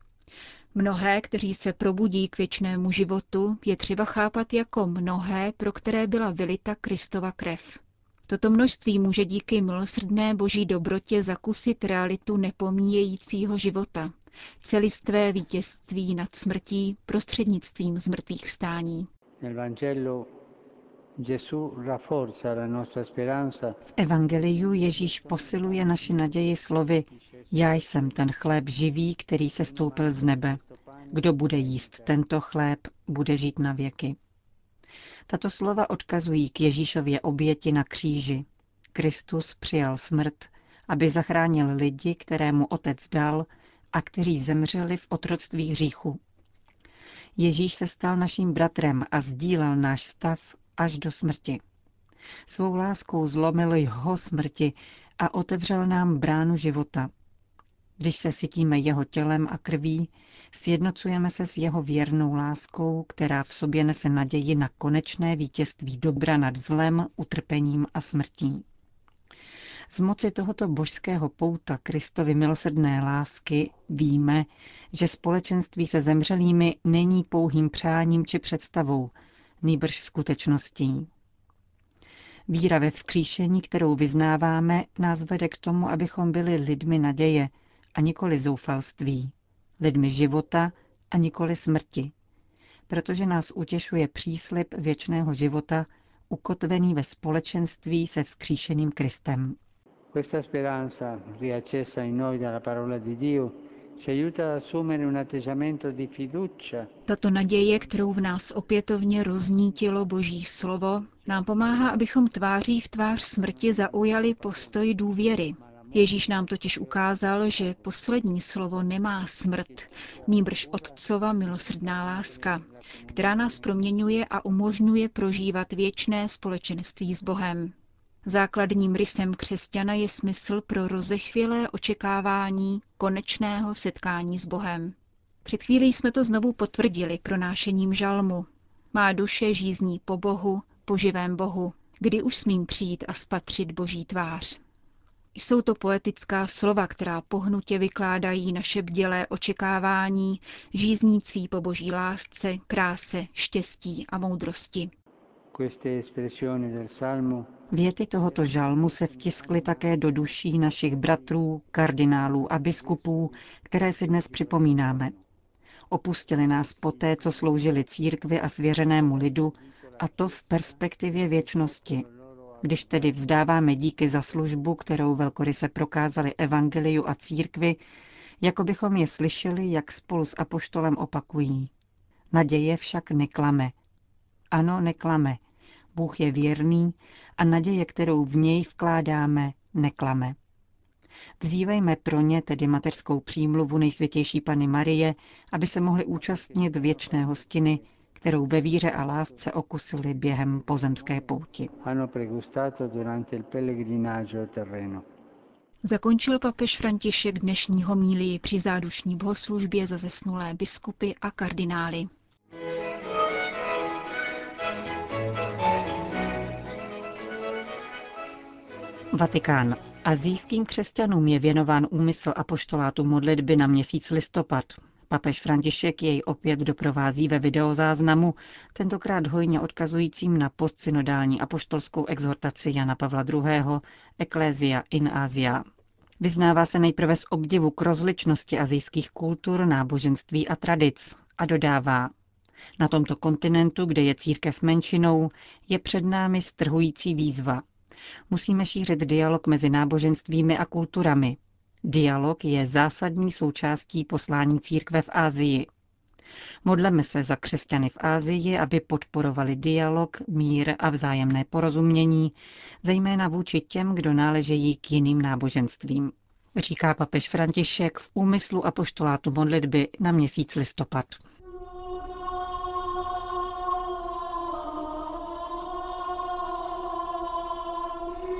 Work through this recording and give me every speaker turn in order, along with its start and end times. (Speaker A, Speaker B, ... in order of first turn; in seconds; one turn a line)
Speaker A: 0.8-19.1
Speaker B: 19.4-20.3
Speaker B: 21.2-23.8
Speaker C: 23.9-30.6
Speaker B: 24.6-26.3
Speaker B: 27.2-28.2
Speaker B: 29.6-32.1
Speaker C: 31.1-34.2
Speaker C: 35.3-46.2
Speaker C: 47.4-51.6
Speaker C: 52.5-57.1
Speaker C: 58.0-68.7
Speaker C: 69.9-81.1
Speaker C: 82.5-92.1
Speaker C: 92.9-99.6
Speaker B: 100.1-106.9
Speaker A: 107.1-127.7
Speaker B: 107.8-108.1
Speaker B: 111.1-112.1
Speaker B: 113.4-118.9
Speaker B: 119.5-123.8
Speaker A: 128.2-134.9
Speaker A: 135.4-144.6
Speaker A: 145.3-154.9
Speaker B: 155.5-157.5
Speaker C: 157.7-165.1
Speaker B: 158.5-160.1
Speaker B: 162.4-163.4
Speaker B: 164.2-165.2
Speaker C: 165.9-172.1
Speaker B: 166.8-167.4
Speaker B: 169.0-173.4
Speaker C: 172.6-177.8
Speaker C: 178.4-181.7
Speaker C: 182.3-183.7
Speaker C: 184.5-185.4
Speaker C: 185.9-190.4
Speaker C: 191.4-201.7
Speaker B: 196.3-197.5
Speaker B: 201.8-205.1
Speaker A: 205.8-212.1
Speaker C: 219.1-235.6
Speaker C: 236.2-242.1
Speaker C: 242.8-247.7
Speaker C: 248.3-255.7
Speaker C: 256.6-271.2